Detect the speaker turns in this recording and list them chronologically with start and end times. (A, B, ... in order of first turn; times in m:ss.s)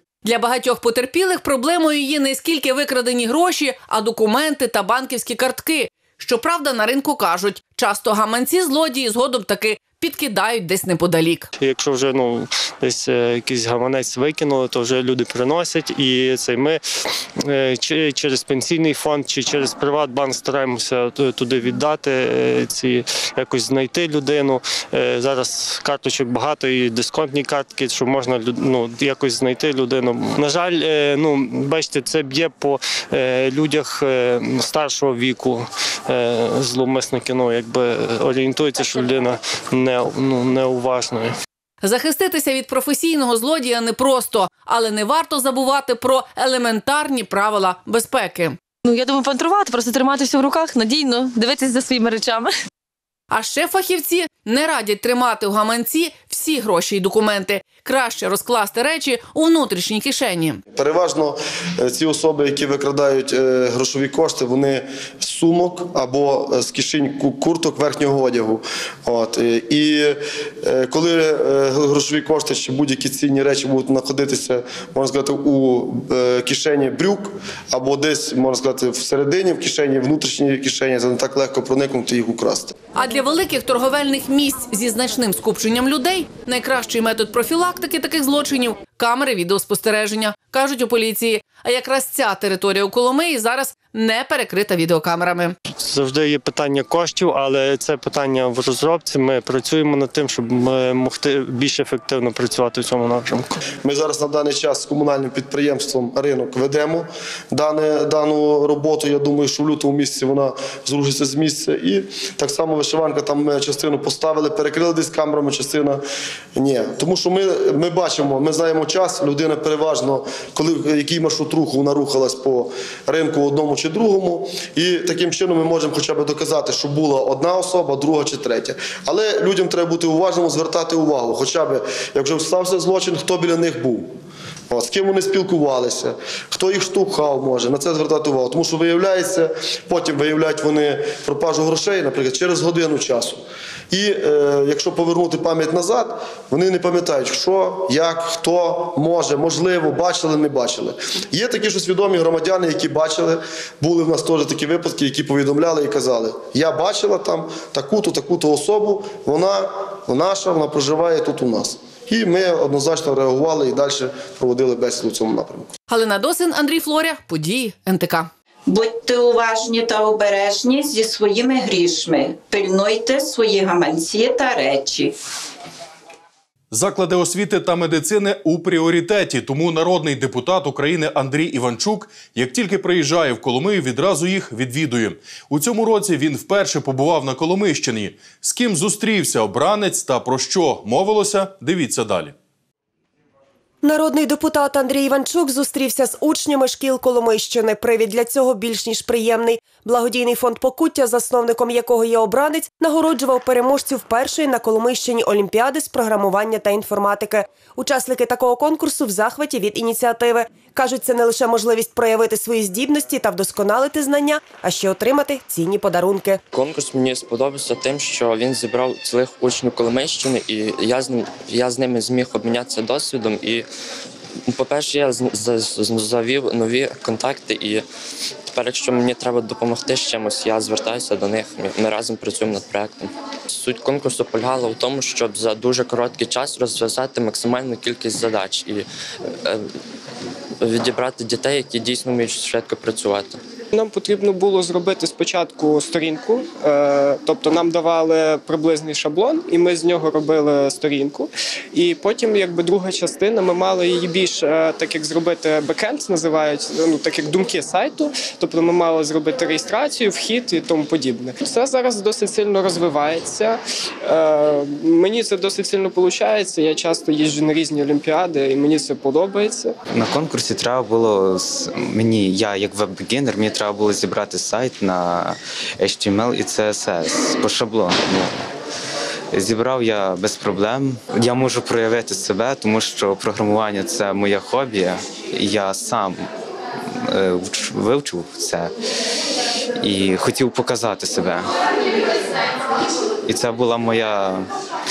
0:00.2-0:11.5 A
0:11.6-0:16.8 B
0:17.4-0:41.4 B
0:41.8-0:48.6 A
0:48.8-0:52.5 C
0:53.3-1:00.6 A
1:00.7-1:22.8 D
1:22.9-1:35.5 A
1:35.8-1:43.6 B
1:43.8-1:56.0 D
1:56.5-2:14.1 D
2:14.7-2:45.7 D
2:45.9-2:48.3 A
2:48.7-2:55.1 E
2:56.7-3:12.3 F
3:13.8-3:36.4 G
3:36.5-3:43.7 H
3:44.5-3:47.8 H
3:48.5-3:58.9 H
3:59.4-3:59.7 H
4:00.6-4:03.4 H
4:03.7-4:29.8 I
4:29.9-4:38.5 J
4:39.3-4:46.2 J
4:46.8-4:48.7 J
4:49.8-4:51.5 J
4:53.2-4:54.5 J